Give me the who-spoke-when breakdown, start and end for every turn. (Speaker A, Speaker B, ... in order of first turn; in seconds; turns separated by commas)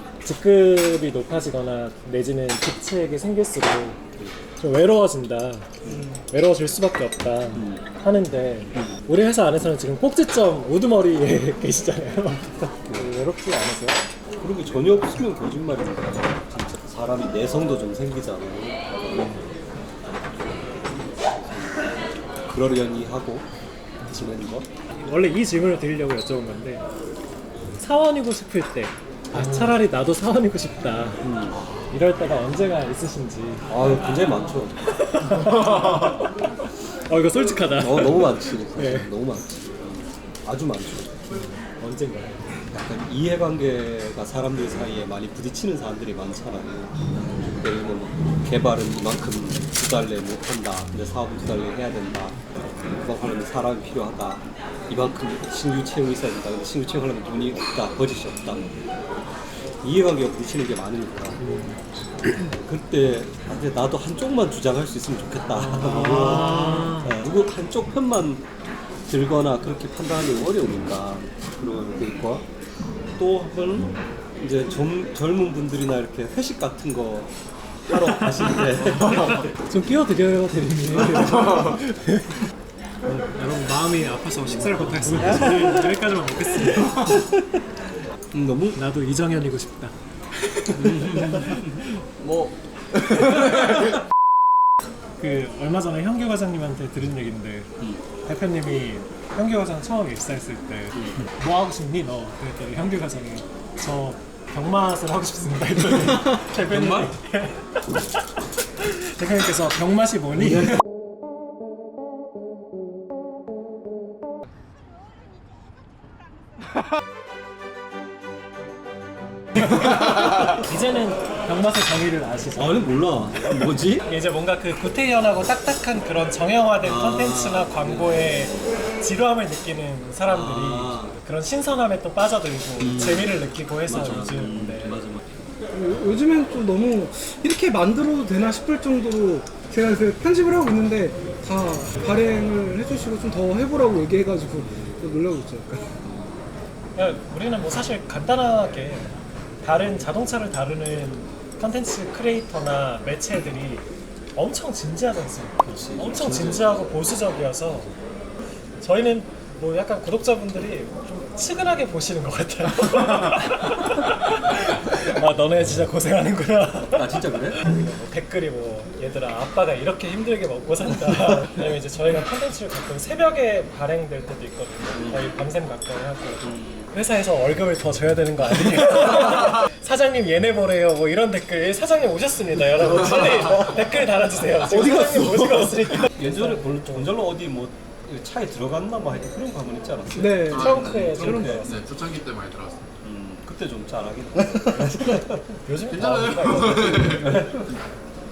Speaker A: 0.2-4.0, Speaker A: 4.6-5.7, Speaker B: 5.9-6.2, Speaker A: 6.3-14.0, Speaker C: 7.5-7.8, Speaker C: 8.7-9.0, Speaker C: 14.4-19.4, Speaker C: 21.2-23.5, Speaker A: 24.0-24.3, Speaker C: 24.1-24.7, Speaker A: 24.9-26.8, Speaker A: 27.8-31.3, Speaker C: 31.2-31.6, Speaker A: 31.9-33.7, Speaker C: 33.7-34.8, Speaker A: 34.9-39.1, Speaker D: 35.7-36.1, Speaker C: 37.6-41.2, Speaker A: 41.3-42.4, Speaker C: 42.7-47.0, Speaker C: 47.5-58.7, Speaker C: 59.8-61.4, Speaker A: 61.4-61.8, Speaker C: 62.4-68.5, Speaker A: 65.6-67.1, Speaker C: 69.1-72.5, Speaker C: 73.2-77.3, Speaker C: 77.9-79.5, Speaker A: 78.0-82.4, Speaker C: 81.0-81.3, Speaker A: 83.0-87.3, Speaker C: 85.0-85.6, Speaker C: 88.3-88.8, Speaker A: 88.7-89.9, Speaker C: 90.7-92.5, Speaker A: 90.8-91.8, Speaker C: 93.1-93.4, Speaker D: 93.3-93.9, Speaker A: 95.2-97.7, Speaker A: 98.2-108.2, Speaker C: 106.5-107.2, Speaker A: 108.8-110.8, Speaker C: 110.4-110.8, Speaker A: 120.4-122.8, Speaker C: 122.5-124.1, Speaker A: 124.0-135.1, Speaker C: 126.8-128.8, Speaker C: 130.2-131.2, Speaker C: 132.8-135.2, Speaker B: 135.7-146.0, Speaker A: 146.9-157.9, Speaker C: 155.6-156.9, Speaker A: 158.8-187.1, Speaker C: 166.9-167.6, Speaker C: 174.9-175.3, Speaker C: 176.4-176.9, Speaker B: 184.7-185.8, Speaker C: 186.1-191.6, Speaker B: 190.1-191.6, Speaker D: 190.5-192.8, Speaker A: 190.5-191.9, Speaker C: 193.0-195.2, Speaker A: 194.8-197.6, Speaker D: 195.9-197.6, Speaker C: 197.2-197.6